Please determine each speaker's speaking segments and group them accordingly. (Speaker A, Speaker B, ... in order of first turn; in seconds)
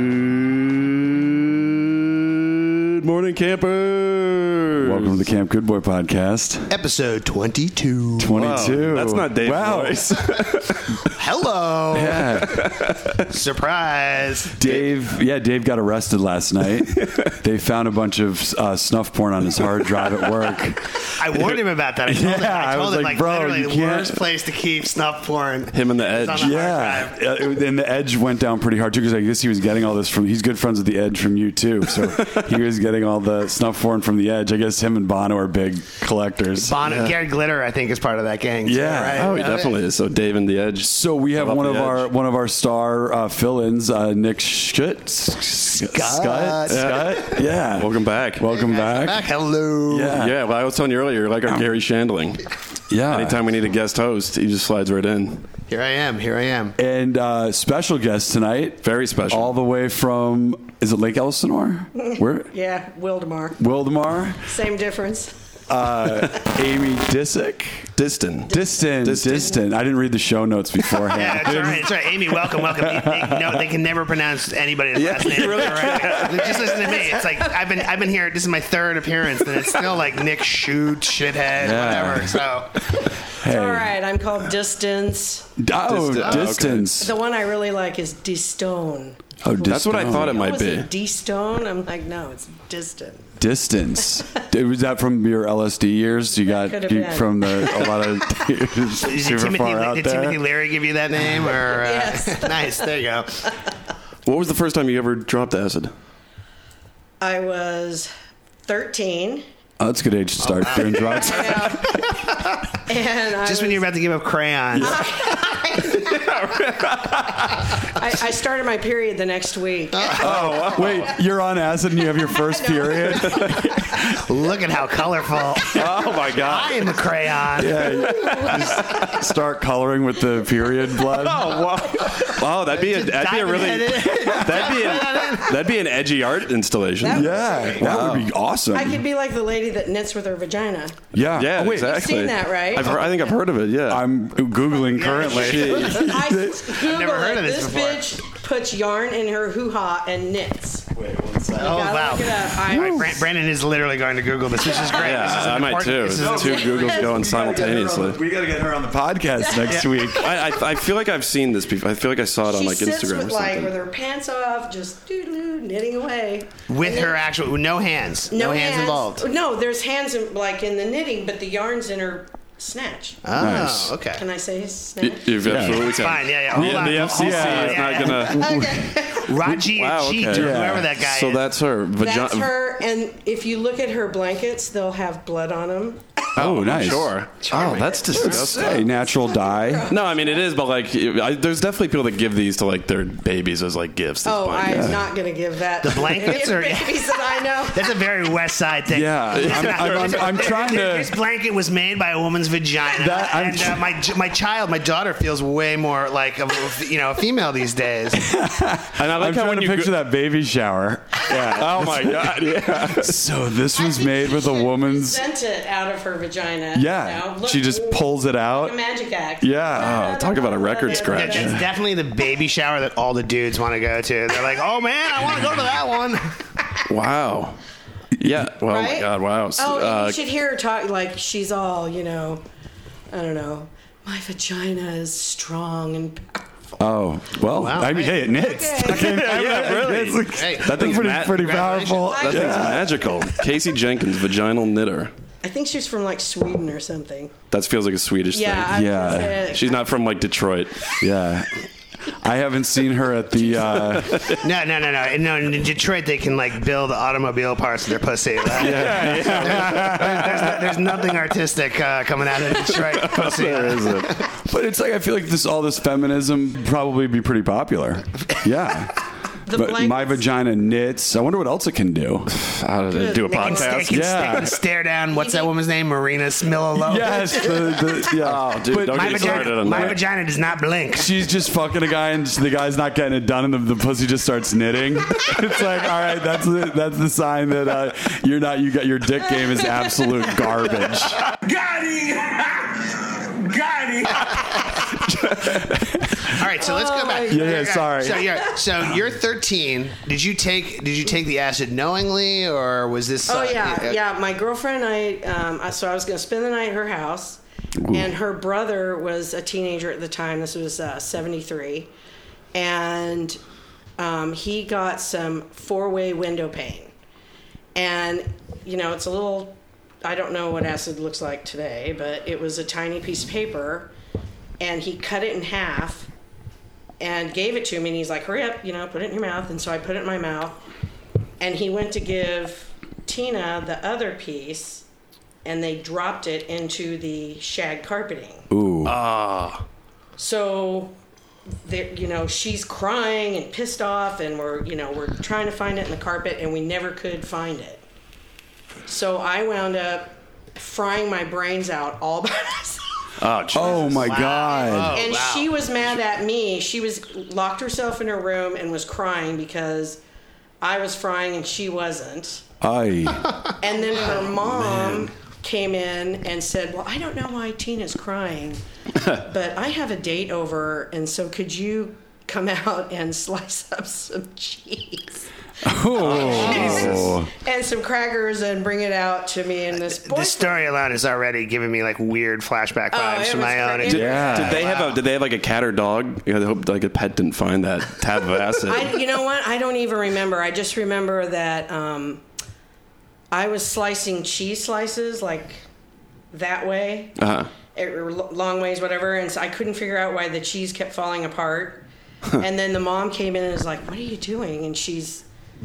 Speaker A: 2.6-5.3, 8.3-11.1, 12.5-13.2, 16.9-17.3, 25.7-26.6, 32.1-32.5, 36.8-37.1, 39.1-42.1, 46.7-48.5, 50.1-52.4, 53.1-55.4, 58.8-59.5, 68.0-69.5, 74.9-77.0, 81.7-82.2, 85.8-86.9, 89.6-90.9, 104.2-105.9, 115.9-117.6, 120.1-121.1, 125.7-126.9, 127.7-129.1, 131.2-138.3, 141.4-144.1, 145.2-146.1, 154.9-158.2, 160.1-163.7, 175.0-178.4, 179.5-182.5, 186.3-188.9, 189.9-195.0, 199.3-200.6, 208.9-210.0, 211.3-213.3, 219.7-221.6, 226.9-227.6, 228.2-230.2, 238.9-245.1, 247.5-251.0, 253.5-254.4, 258.5-260.6, 262.7-264.2, 272.3-274.6, 278.2-280.0, 338.8-339.5, 353.2-354.2, 375.9-377.1, 383.9-389.0, 397.2-397.5
Speaker B: 4.8-6.7, 8.2-10.4, 11.9-12.7, 14.6-21.0, 22.0-24.2, 26.4-36.8, 38.6-39.4, 40.8-49.3, 49.9-50.4, 52.9-53.4, 56.8-62.5, 63.6-64.5, 65.7-67.9, 68.5-73.7, 81.5-82.5, 83.3-83.9, 85.6-87.2, 89.4-90.4, 93.4-100.4, 109.8-112.0, 114.7-115.0, 120.2-124.2, 127.5-131.6, 134.1-135.1, 137.1-139.0, 141.1-141.9, 143.9-146.8, 150.9-153.2, 156.1-160.6, 173.3-174.0, 175.4-179.5, 180.3-180.9, 186.3-187.5, 188.1-189.9, 194.6-195.0, 198.9-201.2, 202.9-204.0, 208.1-215.2, 216.7-218.8, 219.4-220.1, 221.4-221.6, 228.1-228.5, 236.8-243.1, 248.7-249.5, 251.0-254.4, 258.5-260.8, 263.4-272.3, 273.9-274.6, 276.7-280.0, 280.9-291.2, 295.3-296.4, 297.3-299.0, 307.8-308.1, 338.5-339.0, 353.5-355.0, 362.6-363.4, 364.4-365.1, 375.6-377.3, 383.8-384.7
Speaker C: 6.7-8.8, 11.0-12.5, 13.2-14.8, 21.1-27.1, 36.6-39.7, 45.8-47.4, 48.4-50.2, 55.7-56.7, 71.1-82.9, 86.2-86.5, 98.9-103.5, 110.4-112.6, 113.4-115.1, 119.9-120.3, 124.1-128.0, 132.6-135.6, 137.3-137.8, 144.9-146.1, 146.7-148.2, 151.5-156.7, 166.7-169.2, 173.2-174.2, 175.6-178.4, 179.2-181.4, 187.5-187.9, 195.8-208.2, 220.9-226.3, 237.5-242.2, 254.4-264.2, 273.3-278.1, 278.9-281.2, 296.2-304.0, 353.6-355.7, 379.9-384.9
Speaker D: 62.0-63.6, 64.4-65.3, 77.2-77.5, 83.4-85.5, 87.0-93.3, 96.5-98.4, 101.7-102.9, 107.2-108.1, 108.7-109.4, 111.2-112.0, 112.8-113.9, 114.8-116.2, 117.8-120.2, 122.3-123.6, 137.0-137.9, 138.7-140.9, 141.6-143.0, 146.0-150.9, 151.6-153.1, 154.6-155.4, 159.4-160.6, 162.4-167.2, 168.3-173.2, 174.1-175.4, 178.3-179.3, 182.0-186.3, 187.6-190.4, 194.2-197.9, 213.7-221.5, 228.7-232.4, 233.1-236.5, 237.9-239.3, 242.1-242.9, 245.4-247.3, 248.3-249.9, 269.4-270.2, 272.9-273.9, 275.1-275.5, 296.6-297.8, 303.3-311.9, 312.5-313.4, 314.0-316.9, 317.7-323.9, 324.6-326.1, 327.0-330.6, 331.4-334.8, 335.4-338.5, 340.2-340.9, 341.6-347.8, 348.9-352.9, 354.1-360.0, 360.6-362.4, 363.6-375.2, 376.0-380.7, 382.9-384.9, 388.7-392.2, 393.3-395.6, 396.3-397.2, 397.7-401.8, 402.4-405.2
Speaker E: 291.2-294.9